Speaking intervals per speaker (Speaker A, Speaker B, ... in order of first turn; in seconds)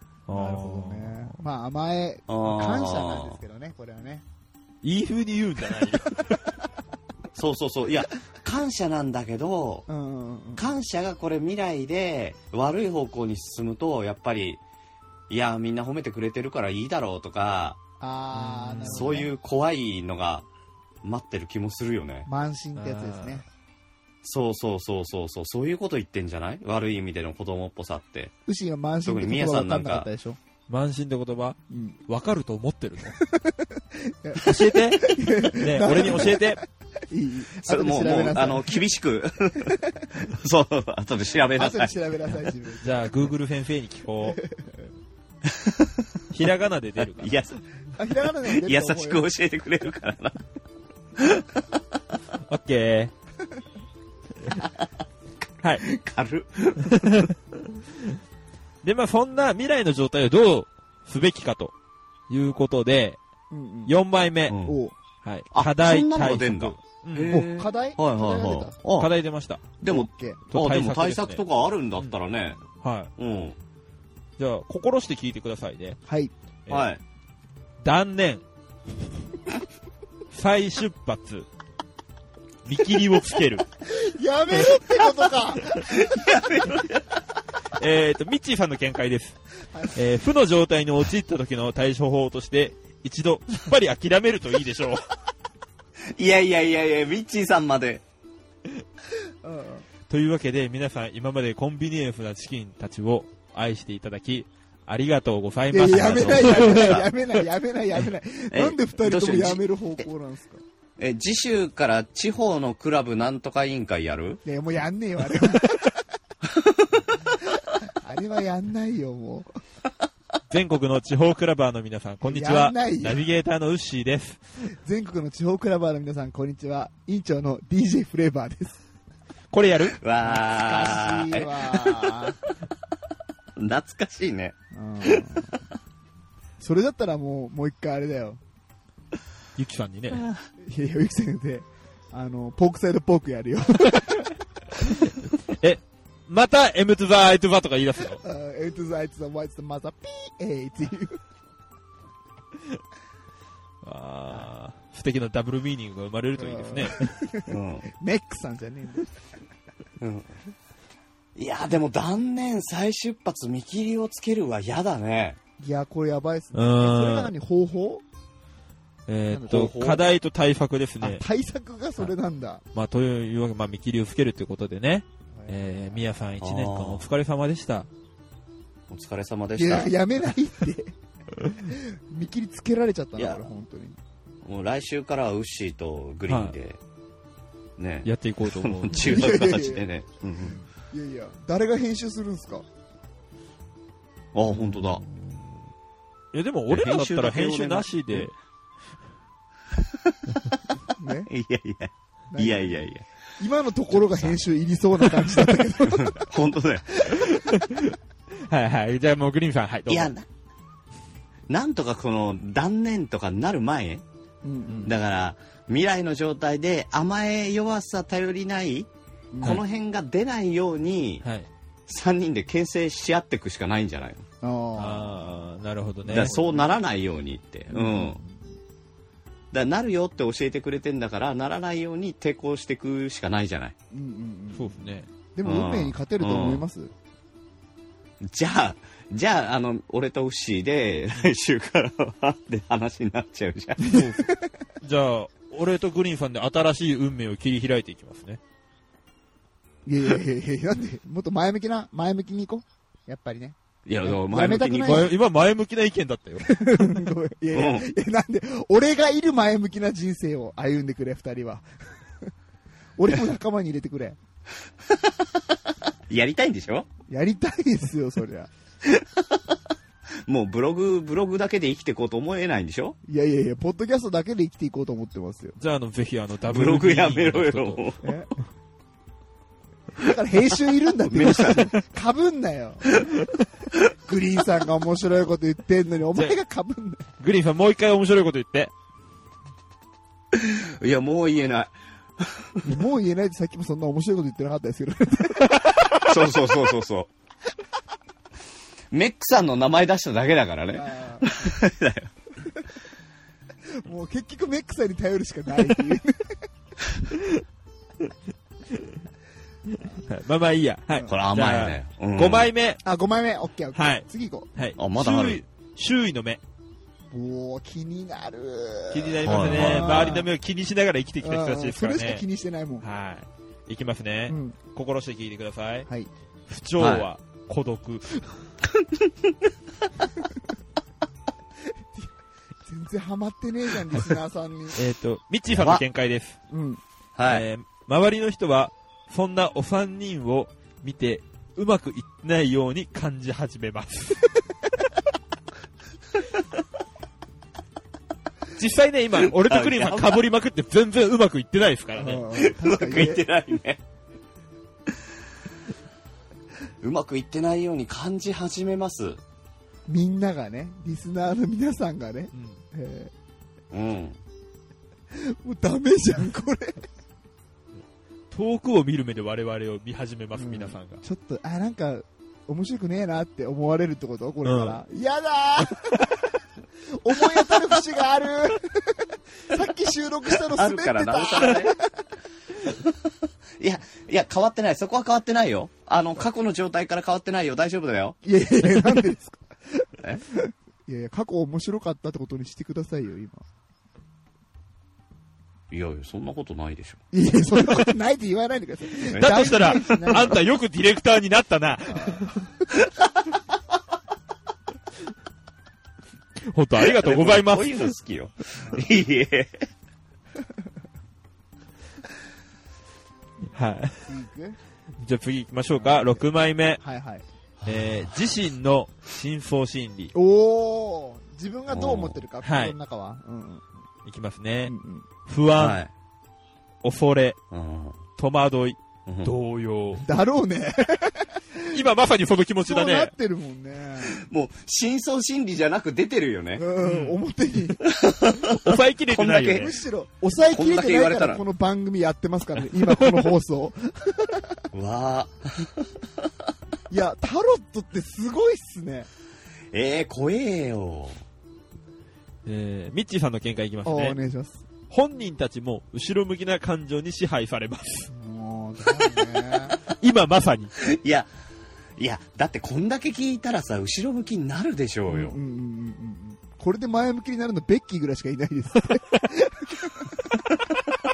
Speaker A: 0.3-1.4, 4.8-6.5, 18.4-19.1, 22.8-23.4, 30.7-33.2, 34.4-36.6, 42.8-44.4, 46.3-47.4, 52.5-53.1, 55.6-55.9, 56.9-58.2, 58.8-61.7, 62.3-63.2, 63.9-64.6, 65.2-67.4, 69.0-69.6, 70.5-71.4, 72.8-73.1, 74.4-76.0, 77.8-78.4, 80.3-81.5, 82.7-83.7, 87.8-89.4, 89.9-95.1, 100.1-107.1, 120.5-124.4, 129.5-130.0, 139.6-140.3, 144.9-148.2, 153.8-157.1, 166.5-167.3, 169.1-171.2, 172.7-177.9, 186.3-186.6, 188.1-189.4, 194.6-195.6, 196.3-198.3, 207.1-210.1, 224.8-226.4, 234.6-235.1, 243.9-244.3, 244.8-248.4, 254.8-256.5, 275.6-277.8, 287.2-288.7, 310.0-312.8, 313.8-316.4, 318.9-322.2, 322.8-325.9, 326.5-328.3, 334.7-336.4, 337.3-344.3, 348.6-352.4, 362.3-362.6, 368.3-371.0, 374.4-374.8, 399.1-402.5, 406.5-407.9, 413.5-414.0, 415.0-416.8, 417.7-420.1, 422.4-422.8, 424.1-424.7, 425.3-425.8, 426.8-427.4, 428.2-430.0, 431.7-433.1, 436.8-437.2, 438.4-439.7, 442.9-443.3, 452.5-454.2, 454.9-458.1, 459.9-460.7
Speaker B: 0.3-4.2, 9.9-10.7, 18.0-19.3, 22.3-23.4, 28.5-30.4, 31.7-32.0, 33.2-38.8, 39.7-40.1, 41.5-43.1, 44.3-44.9, 48.0-49.2, 63.5-63.9, 64.6-64.9, 67.3-68.8, 69.9-70.4, 76.1-76.3, 83.8-86.1, 99.4-99.9, 105.7-110.6, 114.5-115.9, 118.0-119.5, 122.2-123.2, 124.8-128.8, 130.2-132.4, 134.7-135.6, 136.6-138.4, 140.6-144.3, 148.2-151.2, 156.4-159.1, 165.6-168.0, 169.3-169.8, 171.0-172.6, 175.4-176.0, 179.6-180.9, 181.5-184.0, 189.0-189.8, 190.9-192.7, 201.0-201.3, 202.3-202.8, 203.4-206.3, 214.4-214.9, 219.3-219.6, 224.4-225.5, 226.1-226.7, 227.7-228.3, 233.9-234.8, 235.3-236.9, 243.8-244.3, 249.9-255.1, 256.4-261.7, 263.0-264.2, 267.1-268.5, 273.1-275.6, 278.0-278.3, 279.9-283.0, 284.1-287.1, 292.6-295.8, 300.7-301.6, 303.8-306.4, 312.8-314.5, 317.1-320.3, 321.2-322.9, 324.3-324.6, 332.7-334.8, 336.5-336.8, 352.0-353.2, 359.9-363.1, 365.1-366.8, 370.4-376.2, 376.9-381.9, 388.2-393.4, 397.1-400.4, 401.9-402.3, 408.6-408.9, 414.1-414.6, 415.7-417.2, 420.1-423.6, 424.7-425.1, 430.0-431.8, 432.6-434.2, 436.6-437.9, 439.5-444.6, 446.9-449.1, 453.9-454.6, 458.1-459.8, 465.1-470.3
Speaker C: 2.3-3.4, 7.3-9.9, 10.6-14.6, 15.3-17.8, 18.9-20.5, 21.0-22.3, 24.2-28.3, 29.1-30.1, 37.6-41.9, 45.5-46.1, 47.1-47.6, 48.5-50.4, 51.2-51.6, 55.8-57.3, 64.5-64.8, 65.5-69.1, 69.8-72.6, 73.2-73.6, 76.7-77.0, 85.8-87.2, 96.2-98.0, 106.1-107.1, 108.5-110.0, 111.0-114.4, 116.5-117.0, 129.9-132.3, 133.6-135.2, 157.5-157.9, 160.0-160.3, 161.4-165.4, 169.5-170.0, 176.4-177.1, 178.9-179.9, 183.2-183.4, 184.4-186.8, 187.8-190.6, 194.3-195.0, 196.7-198.3, 199.9-200.3, 201.3-203.1, 205.8-207.1, 209.9-210.3, 211.5-214.0, 214.8-218.9, 219.4-221.2, 221.9-224.2, 226.1-228.2, 229.5-233.8, 235.4-236.7, 238.2-244.0, 253.9-255.1, 257.5-257.9, 266.1-266.9, 268.8-269.6, 270.3-273.0, 276.5-278.0, 281.1-281.7, 290.3-292.8, 296.0-297.1, 298.9-302.1, 311.1-312.5, 314.8-315.4, 319.2-320.2, 326.8-327.1, 328.8-329.3, 335.5-335.8, 337.2-337.5, 349.2-350.2, 352.3-353.8, 356.8-359.2, 363.7-364.2, 380.4-381.8, 382.7-383.0, 383.6-388.2, 395.7-397.0, 399.1-399.8, 406.8-409.7, 417.6-418.2, 421.7-422.2, 425.6-425.9, 427.5-428.0, 429.1-429.3, 434.0-436.6, 437.8-439.7, 440.5-441.4, 444.7-446.3, 449.7-451.2, 460.8-461.3, 462.0-465.4